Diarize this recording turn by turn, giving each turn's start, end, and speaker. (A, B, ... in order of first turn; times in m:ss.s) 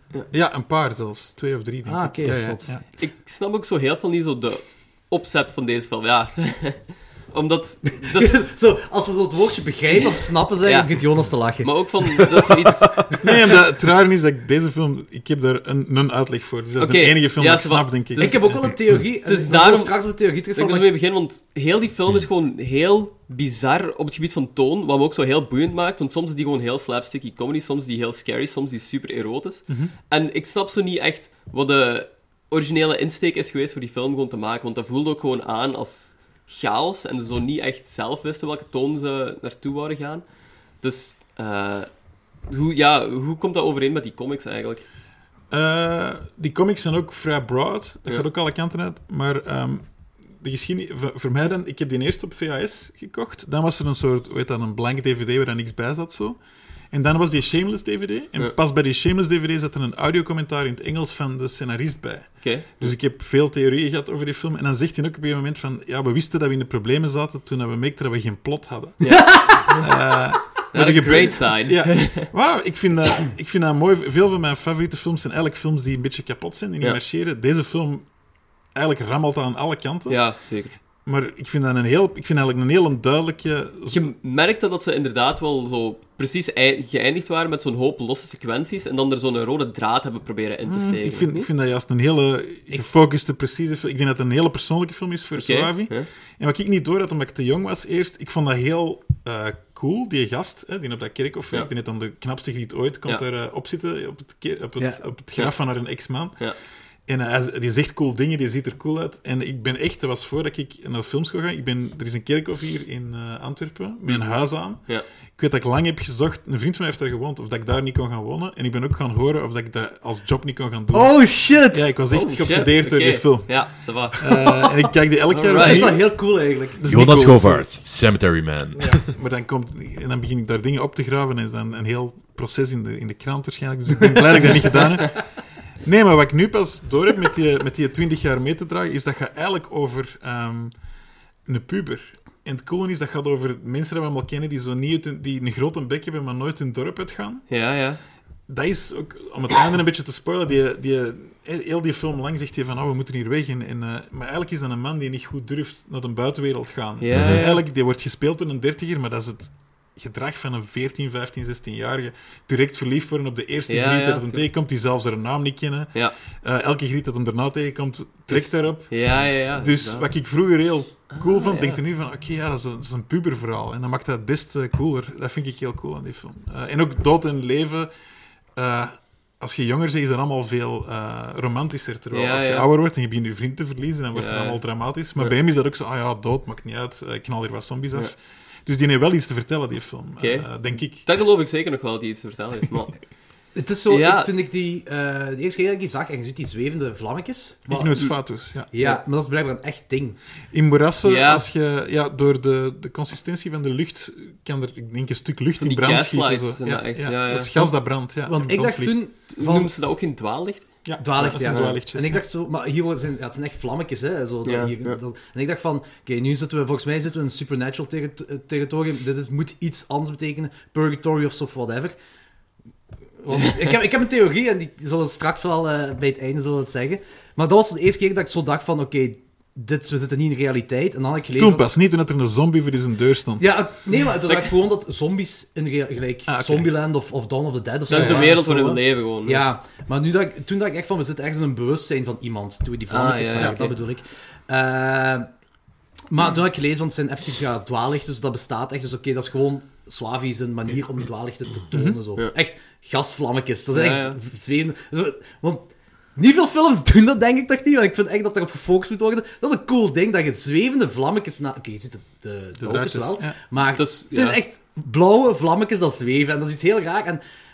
0:00.3-0:02.8 A
0:01.8-0:02.7 B
0:02.7-0:08.5 C
0:08.1-0:13.2 B
0:10.6-0:13.2 C
0:13.2-0:18.7 A
0:16.8-0:41.9 C
0:18.2-0:20.9 B
0:29.7-0:29.9 A
0:42.4-0:44.8 C
0:45.5-1:18.1 A
1:02.4-1:02.9 C
1:09.0-1:09.8 C
1:09.1-1:09.8 B
1:10.7-1:12.3 C
1:18.7-1:20.4 A
1:20.1-1:20.7 C
1:21.0-1:24.0 A
1:23.9-1:31.5 C
1:30.6-1:46.5 A
1:35.3-1:36.1 C
1:45.3-1:46.6 C
1:47.0-2:07.8 A
1:54.0-1:55.0 C
2:00.9-2:01.9 B
2:02.1-2:04.6 C
2:05.3-2:06.0 C
2:05.6-2:07.1 B
2:06.8-2:09.1 D
2:08.8-2:20.8 A
2:21.4-2:27.5 A
2:27.5-2:28.0 C
2:28.5-2:57.9 A
2:37.0-2:37.6 C
2:37.1-2:37.4 D
2:43.7-2:44.5 C
2:48.3-2:50.1 C
2:51.1-2:51.8 C
2:58.5-3:11.0 A
3:02.1-3:02.7 C
3:04.1-3:05.3 C
3:10.2-3:13.0 C
3:13.5-3:20.2 B
3:13.9-3:14.3 C
3:17.7-3:18.7 A
3:20.5-3:29.0 A
3:21.0-3:21.4 C
3:25.6-3:27.6 C
3:28.2-3:29.7 B
3:29.3-3:31.8 C
3:30.8-3:32.2 A
3:31.0-3:42.0 B
3:34.4-3:35.0 C
3:43.2-3:51.7 B
3:51.4-3:53.5 A
3:53.4-4:05.3 B
3:56.3-3:56.7 A
3:57.9-3:59.4 C
3:57.9-3:58.4 A
4:02.9-4:03.8 C
4:06.1-4:27.2 B
4:11.7-4:12.0 A
4:13.7-4:14.2 C
4:22.6-4:23.4 A
4:23.7-4:24.4 C